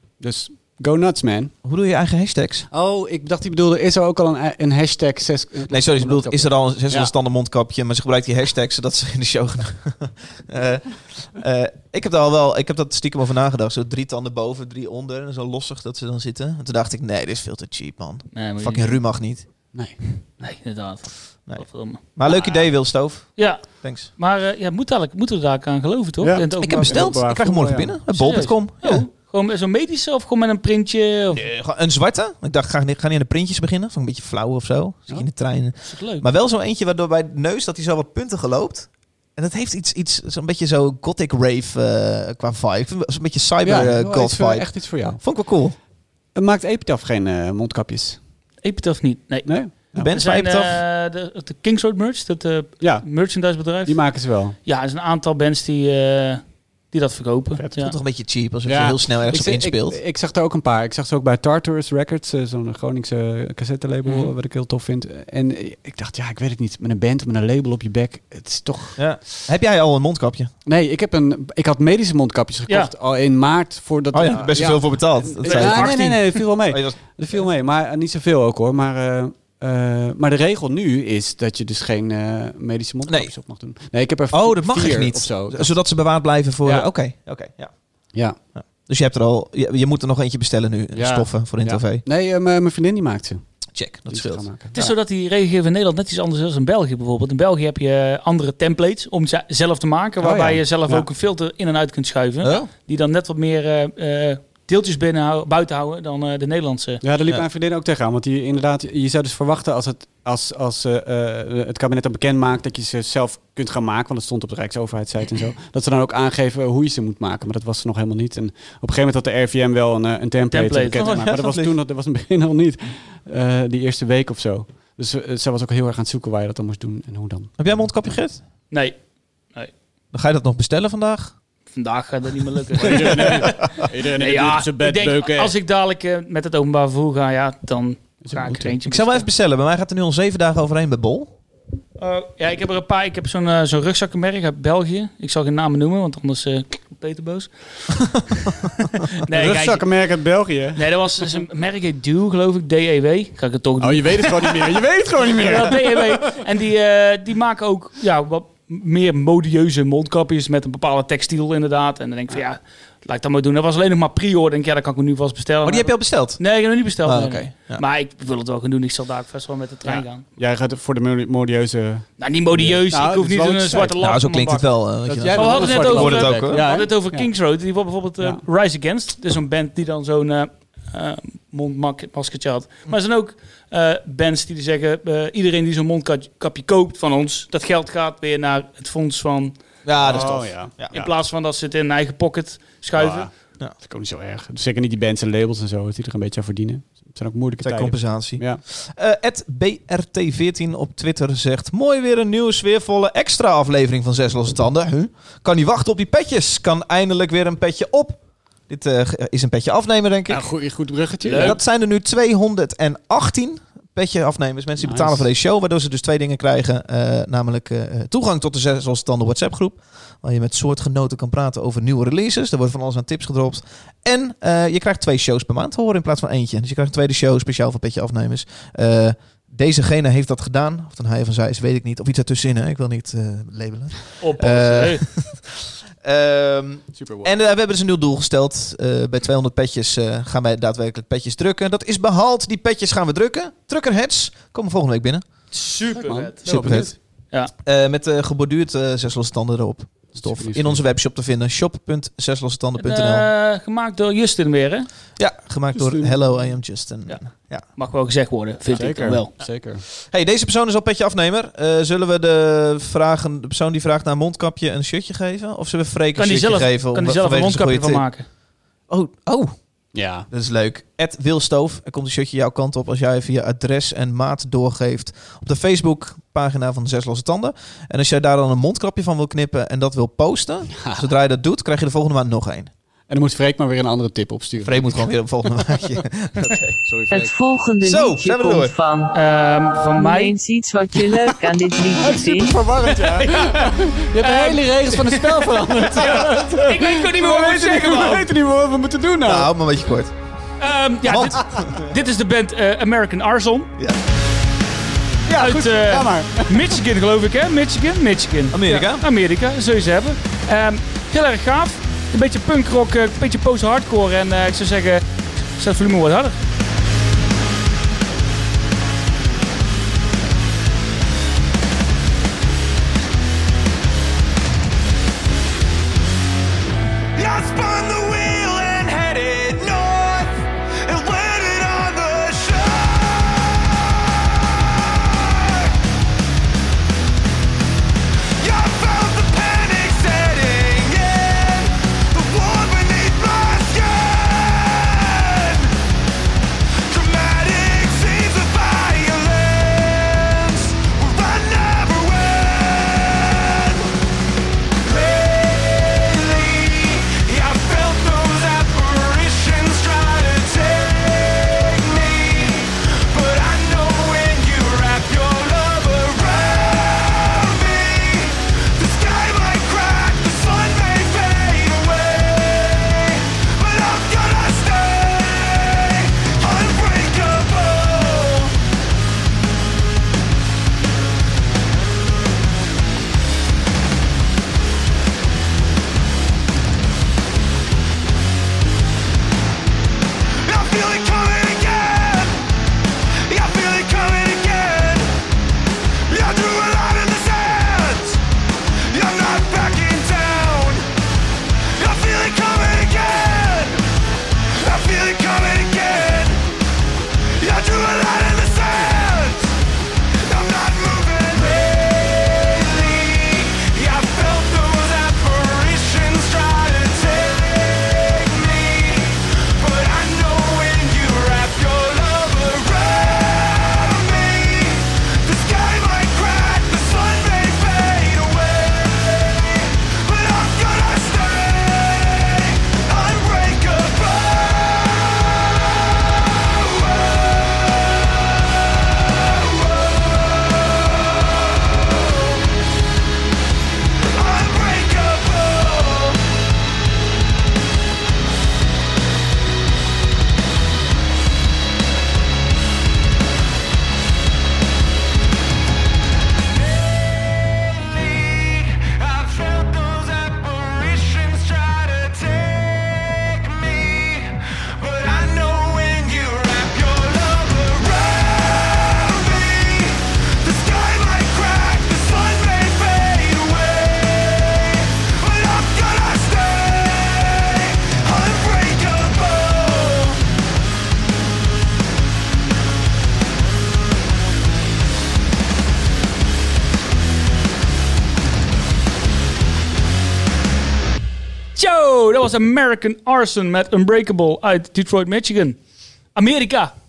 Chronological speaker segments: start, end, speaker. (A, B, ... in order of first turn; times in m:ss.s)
0:00.2-0:01.5 A
0:01.6-0:02.7 B
0:02.7-0:07.1 A
0:05.7-0:19.4 B
0:18.3-0:19.0 C
0:20.1-0:22.7 C
0:21.5-0:24.1 B
0:23.4-0:27.2 C
0:26.2-0:28.0 A
0:26.6-0:29.0 B
0:28.1-0:31.4 C
0:31.3-0:45.8 B
0:35.8-0:36.2 C
0:43.6-0:45.2 A
0:46.3-0:48.2 A
0:48.6-0:58.0 C
0:49.4-0:50.1 A
0:50.0-0:50.8 B
0:52.8-0:53.0 A
0:53.8-0:54.6 A
0:57.8-1:00.0 B
0:58.6-1:09.1 A
1:09.0-1:10.5 B
1:10.6-1:25.7 A
1:14.1-1:17.0 B
1:15.4-1:16.4 C
1:23.0-1:23.3 B
1:24.3-1:27.7 B
1:26.6-1:26.9 A
1:28.1-1:28.4 A
1:28.6-1:32.0 B
1:30.9-1:33.4 A
1:33.7-1:34.5 B
1:34.1-1:34.9 A
1:34.7-1:47.0 C
1:40.2-1:41.0 A
1:42.4-1:42.7 B
1:47.0-2:07.9 A
2:00.5-2:01.1 C
2:01.0-2:01.8 B
2:07.6-2:08.4 B
2:08.7-2:09.0 C
2:10.1-2:11.3 B
2:11.7-2:19.3 C
2:12.8-2:15.5 A
2:18.2-2:18.7 A
2:18.8-2:21.3 B
2:22.0-2:29.9 C
2:29.3-2:30.9 A
2:30.8-2:34.8 C
2:33.8-2:36.3 A
2:35.3-2:50.2 C
2:45.6-2:46.4 B
2:47.0-2:47.8 B
2:49.8-2:53.9 A
2:52.2-2:54.7 C
2:54.0-2:56.7 B
2:55.0-2:57.3 A
2:55.3-3:09.6 C
3:09.8-3:11.0 B
3:10.0-3:11.1 A
3:10.9-3:13.3 C
3:13.0-3:18.6 A
3:17.6-3:30.5 B
3:30.3-3:31.6 A
3:31.2-3:31.6 C
3:31.3-4:05.2 B
3:34.8-3:35.3 A
3:54.2-3:55.0 C
3:57.0-3:57.4 A
4:05.5-4:07.5 C
4:05.9-4:06.9 A
4:06.4-4:06.9 B
4:07.6-4:13.3 B
4:10.1-4:10.8 A
4:12.8-4:14.9 C
4:15.2-4:17.6 B
4:15.7-4:16.4 A
4:17.8-4:19.3 C
4:18.7-4:19.8 A
4:20.0-4:28.0 B
4:26.2-4:28.2 C
4:28.9-4:29.6 B
4:29.9-4:30.3 A
4:30.3-4:42.7 B
4:40.7-4:41.0 A
4:43.1-4:45.1 A
4:44.6-4:46.8 B
4:46.8-4:47.3 A
4:47.1-4:49.2 D
4:47.8-4:48.7 B
4:49.1-4:50.3 C
4:49.9-4:52.6 D
4:52.0-4:59.5 A
4:52.9-4:58.3 C
4:59.2-5:00.1 B
5:00.6-5:03.7 C
5:01.0-5:01.9 B
5:05.3-5:06.8 A
5:05.4-5:15.0 C
5:08.5-5:09.0 B
5:15.6-5:16.4 C
5:27.2-5:35.8 E
5:38.4-5:45.8 E
5:46.9-5:53.9 E
5:54.8-6:18.6 E
6:30.4-6:32.4 E
6:33.1-6:35.2 E
6:36.1-6:40.9 E
6:41.6-6:46.5 E
6:47.4-7:18.3 E
7:19.0-7:22.4 E
7:24.0-7:26.3 E
7:36.7-8:00.3 E
8:11.5-8:15.6 C
8:16.1-8:16.7 C